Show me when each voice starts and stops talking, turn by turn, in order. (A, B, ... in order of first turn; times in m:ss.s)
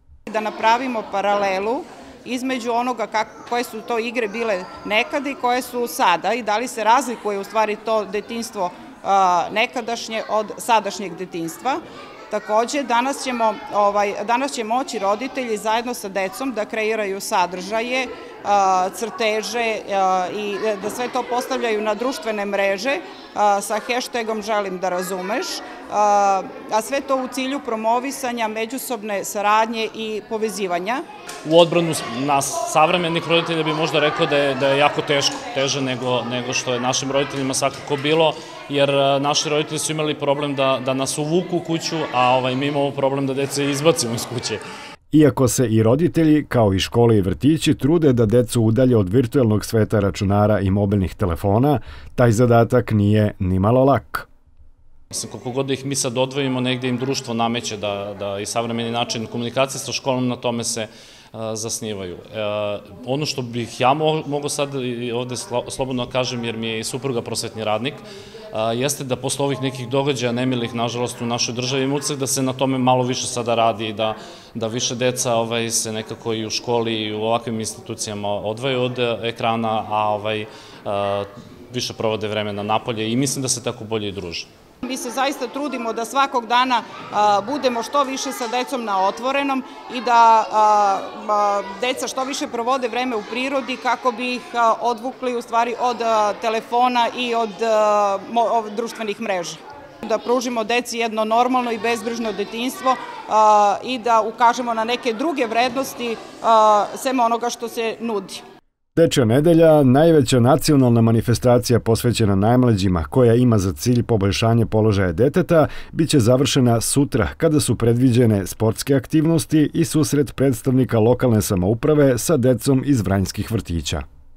0:00.3-0:11.8 A
0:12.3-0:31.0 A
0:31.4-0:44.6 B
0:45.1-0:54.3 C
0:55.1-1:24.5 B
1:24.8-1:48.4 A
1:49.0-2:04.0 C